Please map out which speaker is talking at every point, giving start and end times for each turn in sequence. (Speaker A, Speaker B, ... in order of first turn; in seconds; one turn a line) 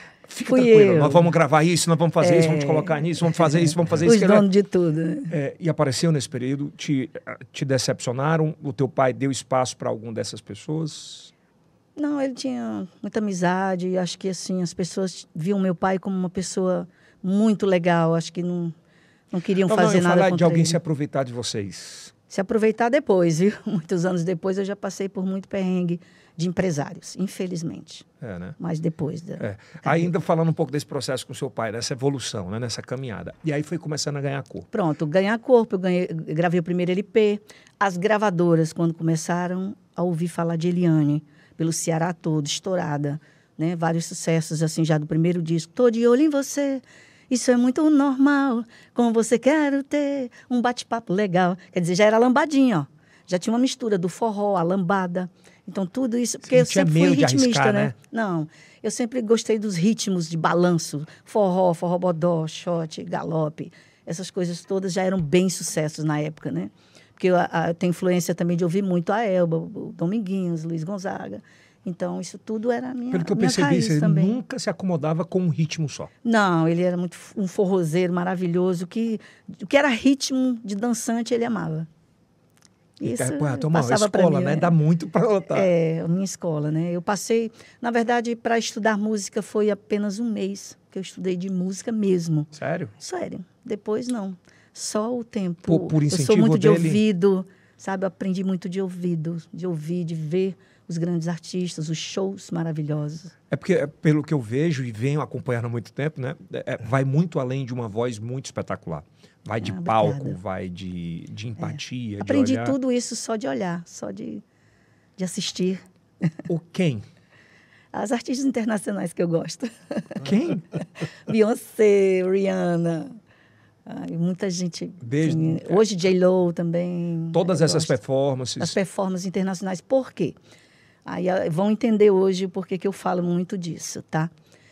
Speaker A: 0.3-4.5
Speaker B: 0.4-1.3
Speaker B: 2.2-5.3
Speaker A: 5.3-11.3
Speaker B: 11.9-18.7
Speaker B: 19.3-20.8
Speaker A: 19.6-22.1
Speaker B: 22.3-28.1
Speaker A: 28.2-28.6
Speaker B: 28.6-30.1
Speaker A: 29.4-34.7
Speaker B: 34.7-74.4
Speaker A: 56.5-57.9
Speaker A: 73.1-76.1
Speaker B: 76.2-81.9
Speaker B: 83.0-84.7
Speaker A: 83.0-85.7
Speaker B: 85.5-103.3
Speaker A: 92.5-92.9
Speaker A: 95.7-97.0
Speaker A: 103.5-112.8
Speaker B: 109.6-110.4
Speaker B: 111.6-114.4
Speaker B: 115.2-115.8
Speaker A: 116.5-117.0
Speaker B: 117.9-120.2
Speaker A: 120.2-120.7
Speaker B: 121.3-123.2
Speaker B: 123.8-128.0
Speaker A: 125.0-125.9
Speaker A: 127.3-128.8
Speaker B: 128.6-130.3
Speaker B: 131.0-134.3